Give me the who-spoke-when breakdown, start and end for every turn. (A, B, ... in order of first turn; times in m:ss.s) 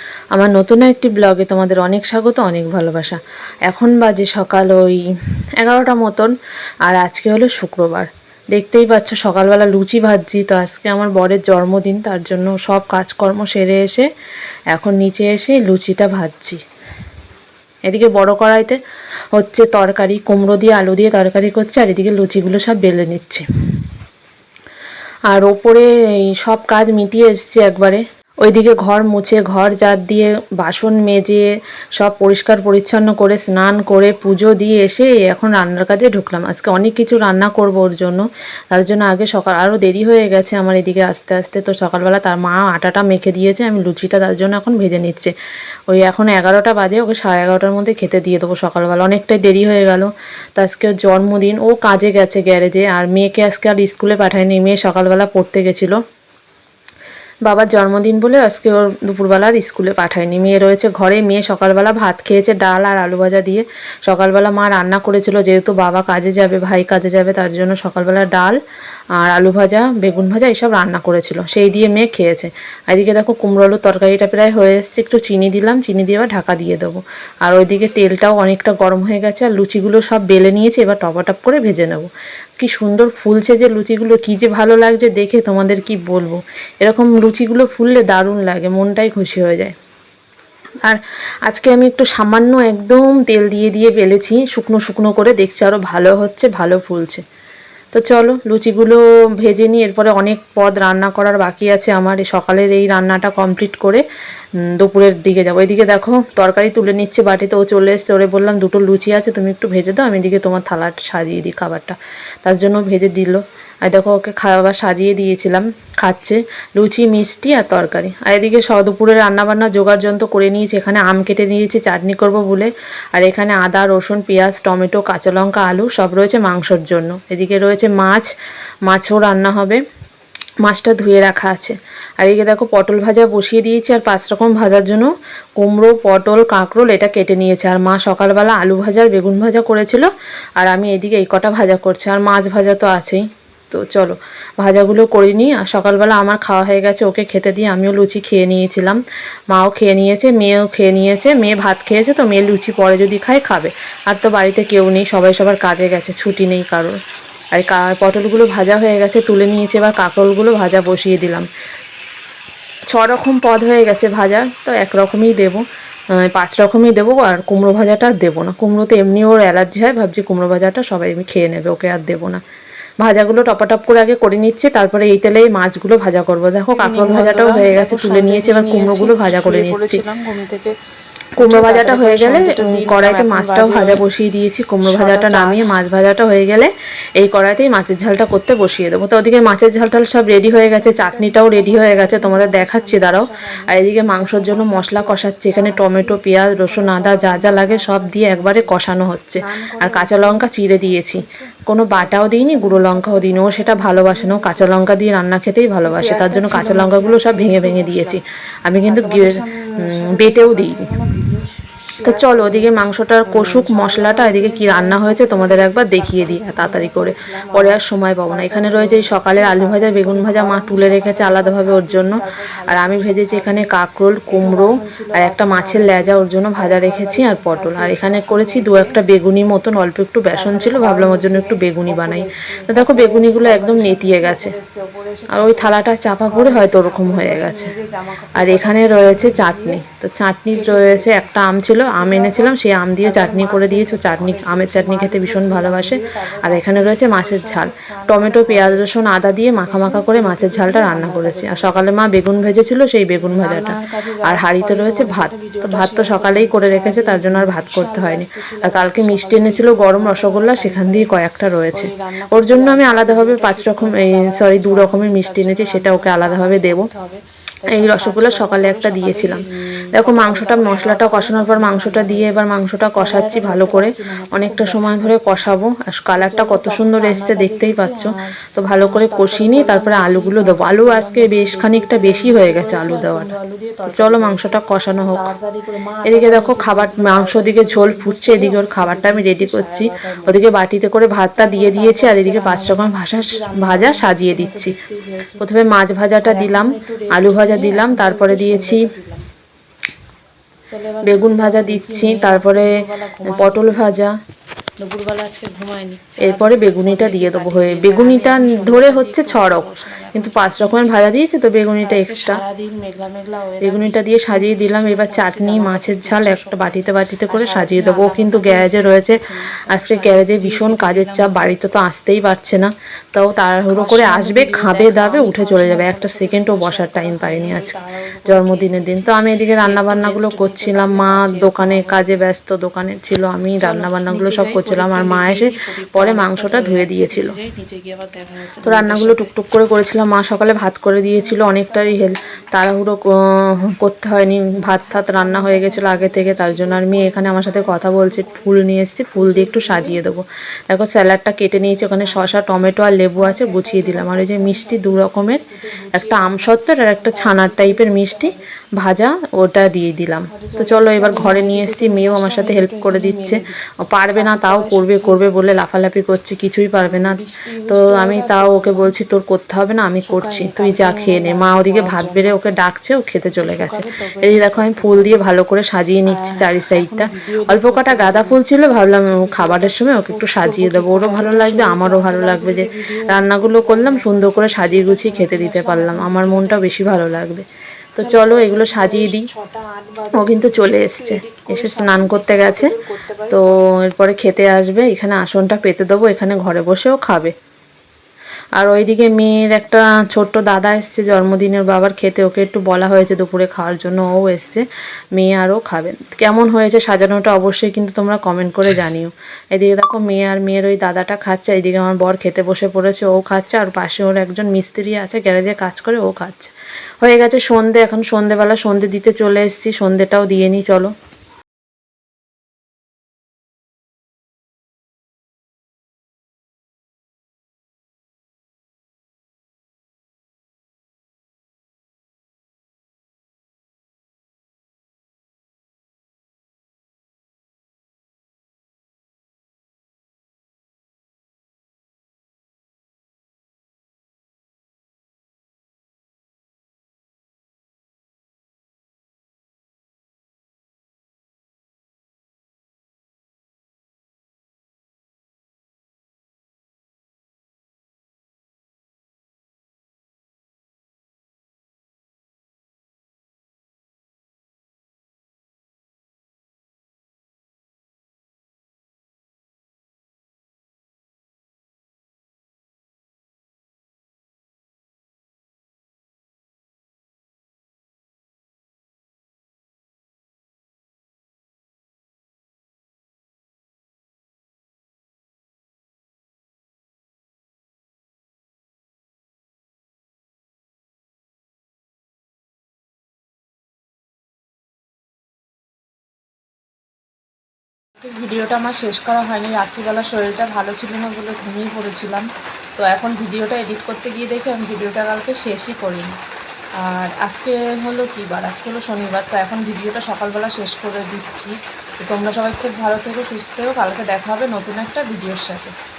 0:00.3-0:05.0 A
0:05.6-0:06.3 A
0:06.9-0:14.1 A
0:14.7-0:16.6 A
0:17.9-0:18.8 A
0:19.3-0:23.4 A
0:25.3-0:25.9 A
0:26.4-0:45.3 A
0:45.9-0:56.0 A
0:57.4-1:08.6 A
1:09.2-1:29.7 A
1:30.8-1:37.2 A
1:37.9-1:44.0 A
1:44.8-2:08.3 A
2:08.9-2:09.8 A
2:10.6-2:29.0 A
2:29.5-2:37.0 A
2:37.5-2:41.5 A
2:42.9-2:45.6 A
2:46.2-2:52.4 A
2:53.0-3:00.0 A
2:56.7-3:00.7 B
3:01.4-3:30.9 A
3:01.4-3:04.0 B
3:04.8-3:05.6 B
3:10.4-3:18.8 B
3:19.4-3:24.9 B
3:25.8-3:28.2 B
3:28.8-3:32.7 B
3:32.0-3:54.5 A
3:33.3-3:49.0 B
3:50.3-3:59.8 B
3:55.3-3:57.7 A
3:58.4-4:26.8 A
4:00.5-4:12.1 B
4:13.2-4:21.1 B
4:21.7-4:32.4 B
4:27.7-4:29.4 A
4:29.9-4:43.3 A
4:33.0-4:35.5 B
4:36.1-4:50.4 B
4:43.9-4:45.2 A
4:46.1-4:54.7 A
4:51.4-4:55.4 B
4:55.4-4:58.9 A
4:56.2-4:59.2 B
5:00.7-5:04.0 B
5:01.0-5:02.7 A
5:03.3-5:04.1 A
5:04.8-5:11.1 B
5:06.2-5:12.4 A
5:11.8-5:21.5 B
5:13.6-5:37.3 A
5:23.7-5:32.3 B
5:33.6-5:39.3 B
5:38.6-5:55.4 A
5:41.0-5:42.5 B
5:44.7-5:48.5 B
5:49.1-5:50.0 B
5:51.5-5:58.4 B
5:55.9-6:29.3 A
6:00.3-6:03.6 B
6:04.1-6:05.3 B
6:06.8-6:08.9 B
6:10.0-6:12.5 B
6:13.3-6:15.2 B
6:16.1-6:26.7 B
6:28.0-6:33.8 B
6:30.1-6:32.7 A
6:33.3-6:37.3 A
6:38.6-6:44.6 A
6:45.2-7:00.9 A
8:18.0-8:26.2 B
8:26.8-8:35.7 B